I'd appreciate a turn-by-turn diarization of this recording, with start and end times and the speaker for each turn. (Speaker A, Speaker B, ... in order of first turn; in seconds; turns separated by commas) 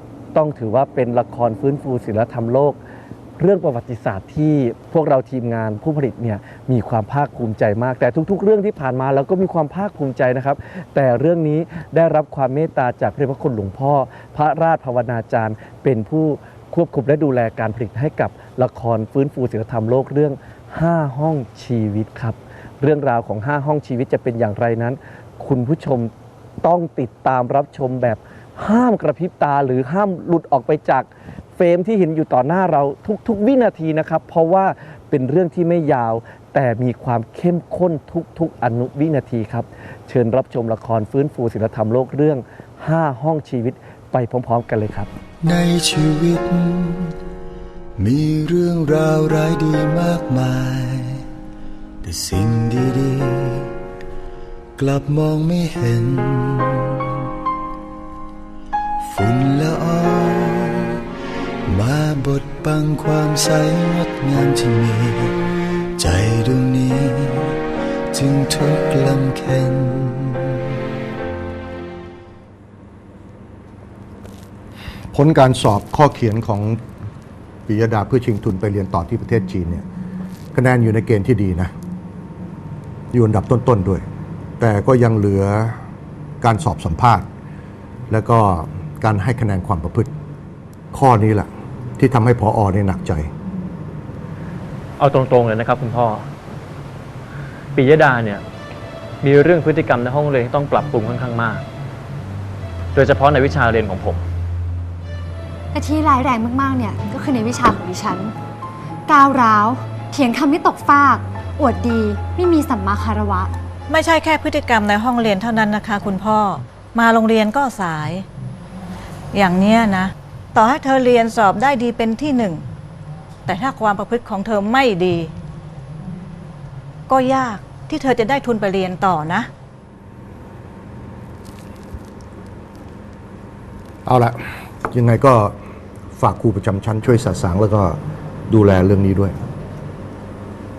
Speaker A: 0.3-2.8, Speaker A: 3.4-45.1, Speaker B: 45.4-47.1, Speaker B: 48.0-51.2, Speaker B: 52.0-53.7, Speaker B: 54.8-57.0, Speaker B: 59.0-61.0, Speaker B: 61.7-65.4, Speaker B: 66.0-67.6, Speaker B: 68.1-70.6, Speaker C: 75.1-76.8, Speaker C: 77.7-79.8, Speaker C: 80.5-81.7, Speaker C: 83.1-84.0, Speaker C: 84.6-85.8, Speaker C: 86.4-87.3, Speaker C: 88.1-90.1, Speaker C: 90.9-93.3, Speaker D: 95.0-96.2, Speaker D: 97.8-98.4, Speaker D: 99.2-101.6, Speaker D: 102.9-104.2, Speaker E: 105.7-108.3, Speaker E: 109.1-113.5, Speaker F: 113.9-118.2, Speaker F: 119.3-122.6, Speaker F: 123.4-125.3, Speaker F: 127.1-129.5, Speaker C: 134.1-135.6, Speaker C: 136.2-139.3